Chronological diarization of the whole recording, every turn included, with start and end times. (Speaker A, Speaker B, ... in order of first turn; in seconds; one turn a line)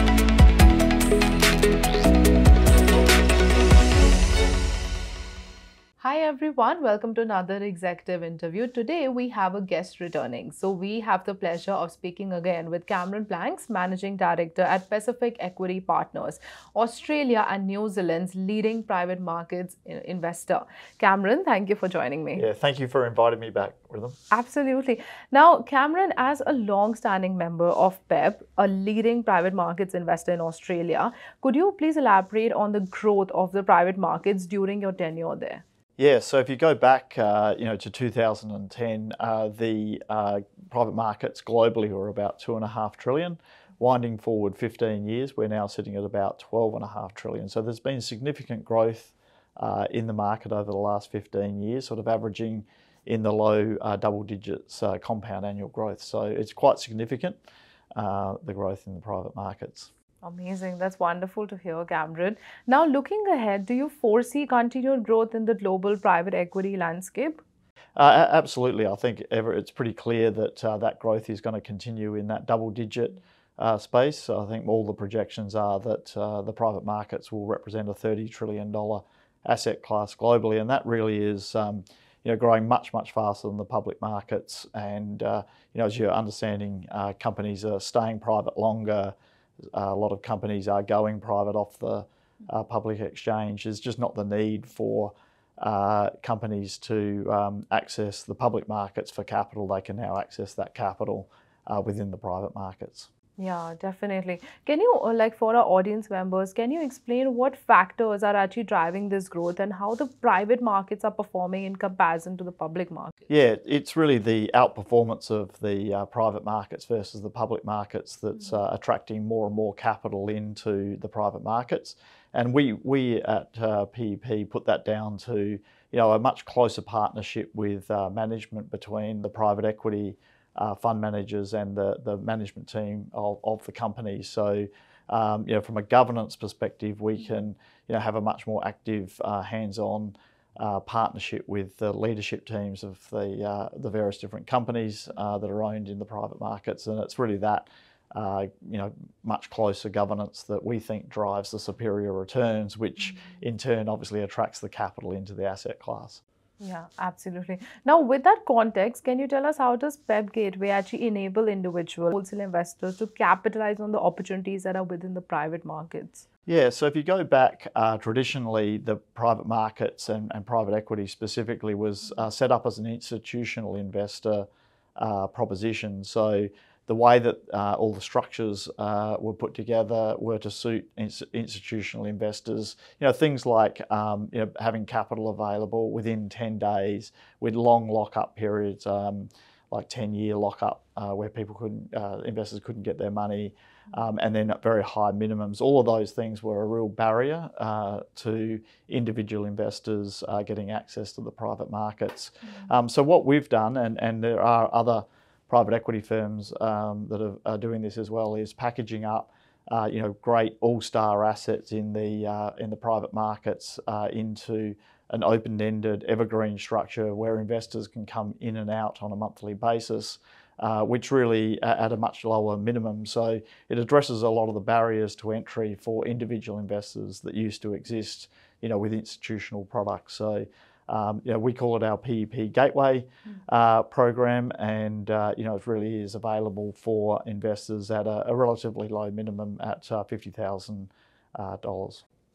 Speaker A: 6.0-22.4
Speaker B: 22.3-24.2
Speaker A: 24.3-35.6
Speaker B: 36.0-57.4
Speaker B: 58.0-59.9
Speaker A: 60.2-67.4
Speaker B: 68.0-89.1
Speaker B: 89.7-103.1
Speaker A: 103.4-113.1
Speaker B: 113.3-156.2
Speaker A: 156.6-166.2
Speaker B: 166.4-174.4
Speaker B: 175.0-242.1